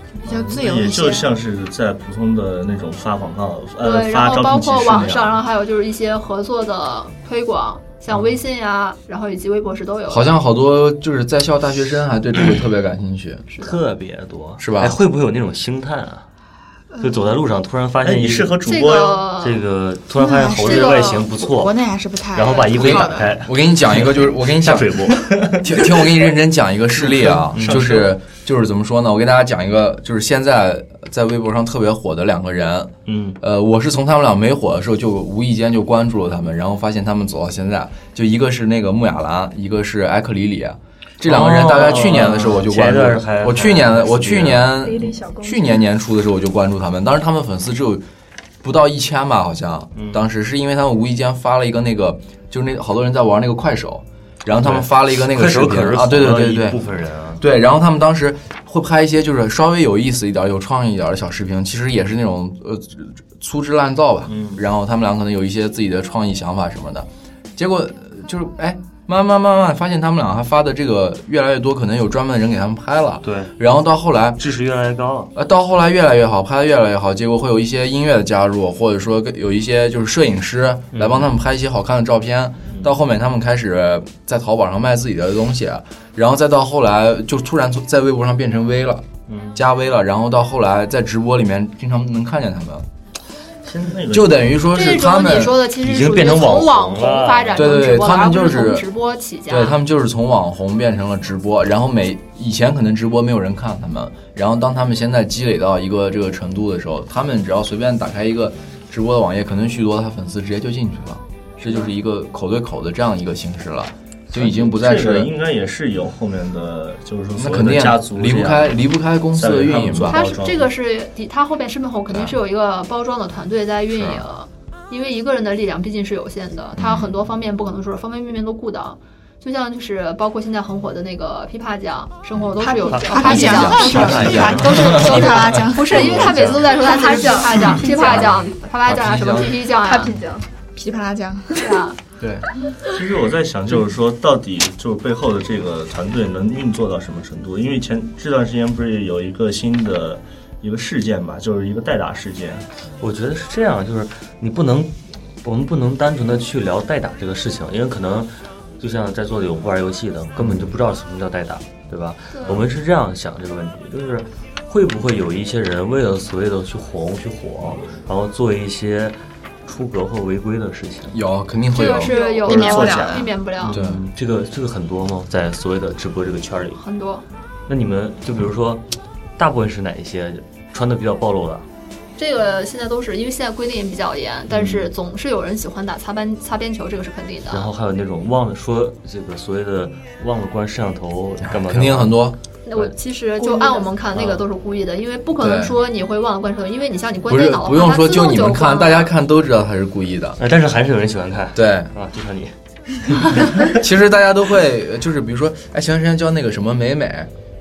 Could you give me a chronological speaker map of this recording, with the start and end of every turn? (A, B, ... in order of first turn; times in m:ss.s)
0:00.2-0:01.3 A
0:00.3-0:05.4 B
0:03.8-0:10.4 C
0:10.1-0:13.4 D
0:13.5-0:13.8 C
0:13.6-0:16.2 E
0:14.6-0:15.0 D
0:17.0-0:18.6 E
0:18.0-0:19.2 B
0:18.6-0:19.6 C
0:19.4-0:21.8 E
0:20.1-0:23.5 A
0:20.6-0:21.3 C
0:22.3-0:25.5 E
0:22.7-0:48.0 D
0:25.3-0:25.7 B
0:26.9-0:28.1 B
0:27.3-0:27.9 E
0:33.0-0:33.4 E
0:41.2-0:44.8 E
0:44.8-0:45.8 F
0:48.6-0:56.8 D
0:49.9-0:50.2 E
0:54.5-0:57.4 E
0:57.4-1:14.4 D
1:04.3-1:04.6 E
1:13.2-1:13.5 E
1:14.4-1:15.3 E
1:15.3-1:32.8 D
1:20.9-1:21.3 E
1:29.3-1:29.6 E
1:33.6-1:33.9 E
1:33.8-1:34.5 B
1:34.1-1:35.6 D
1:34.7-1:39.8 C
1:35.8-1:37.8 E
1:37.5-1:38.8 D
1:39.5-1:55.3 D
1:54.3-1:58.8 B
1:57.4-2:00.2 D
1:59.3-2:00.7 B
2:00.1-2:20.1 C
2:03.9-2:04.2 E
2:06.8-2:07.1 D
2:12.6-2:16.5 A
2:12.8-2:15.3 E
2:13.6-2:15.6 D
2:15.9-2:16.7 E
2:16.6-2:18.4 F
2:18.0-2:19.6 D
2:19.3-2:20.5 F
2:20.7-2:21.8 A
2:21.6-2:22.0 C
2:22.2-2:22.5 D
2:22.9-2:32.6 B
2:33.0-2:51.2 E
2:40.4-2:40.7 D
2:51.1-2:52.2 D
2:51.7-2:53.8 C
2:52.0-2:52.5 F
2:52.1-2:53.3 A
2:52.5-2:53.3 B
2:53.6-2:56.8 E
2:53.7-2:54.0 D
2:56.8-2:57.2 C
2:57.7-2:58.8 E
2:59.4-3:01.6 E
3:02.2-3:07.7 C
3:04.5-3:04.9 E
3:07.5-3:12.9 E
3:11.5-3:12.4 D
3:12.7-3:19.1 C
3:13.4-3:13.9 F
3:14.1-3:14.4 E
3:15.4-3:15.7 D
3:17.3-3:20.4 D
3:20.4-3:22.5 E
3:21.5-3:21.9 D
3:23.1-3:23.7 E
3:23.6-3:27.3 D